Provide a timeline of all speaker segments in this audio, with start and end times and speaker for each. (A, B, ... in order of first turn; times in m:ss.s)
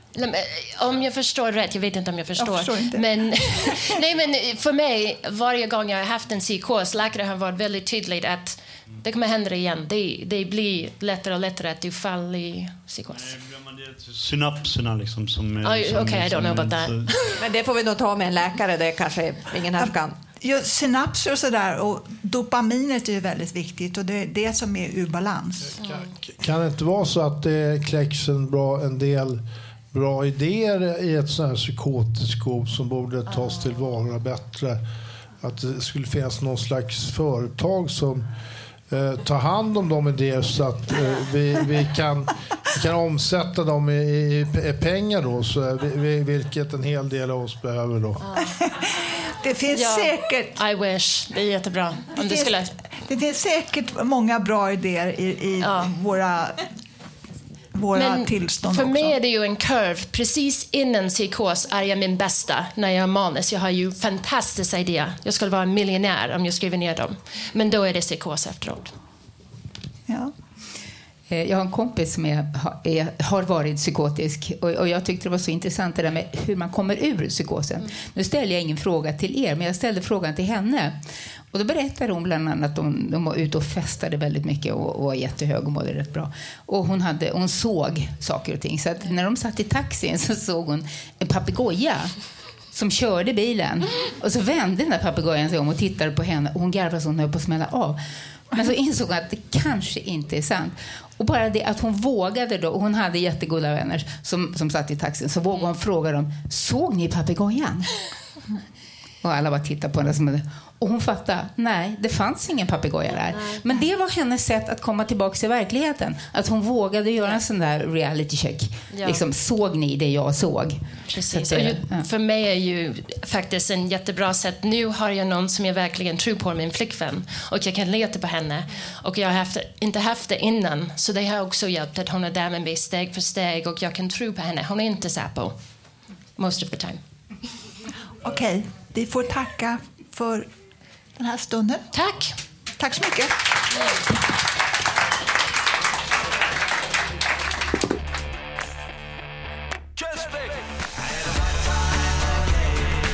0:00.1-0:13.3 A
0:02.4-0:03.9 B
0:13.1-0:17.3 C
0:15.6-0:17.4 A
0:17.4-0:20.1 D
0:19.8-0:25.8 B
0:25.7-0:34.8 E
0:25.8-0:26.1 A
0:33.3-0:33.7 A
0:35.4-0:38.2 E
0:38.9-0:48.2 E
0:48.2-0:48.6 A
0:48.6-0:50.5 B
0:49.7-0:52.7 A
0:52.2-0:56.6 B
0:55.6-0:55.9 A
0:57.7-0:59.2 B
0:57.9-1:08.9 A
1:10.1-1:10.3 B
1:11.3-1:21.0 F
1:21.5-1:32.1 F
1:32.7-1:47.9 F
1:49.2-2:02.0 F
1:53.2-1:53.8 A
1:58.9-1:59.2 A
2:01.1-2:15.6 A
2:16.4-2:17.0 A
2:18.2-2:20.5 B
2:21.2-2:21.9 B
2:21.9-2:22.3 A
2:22.8-2:23.4 B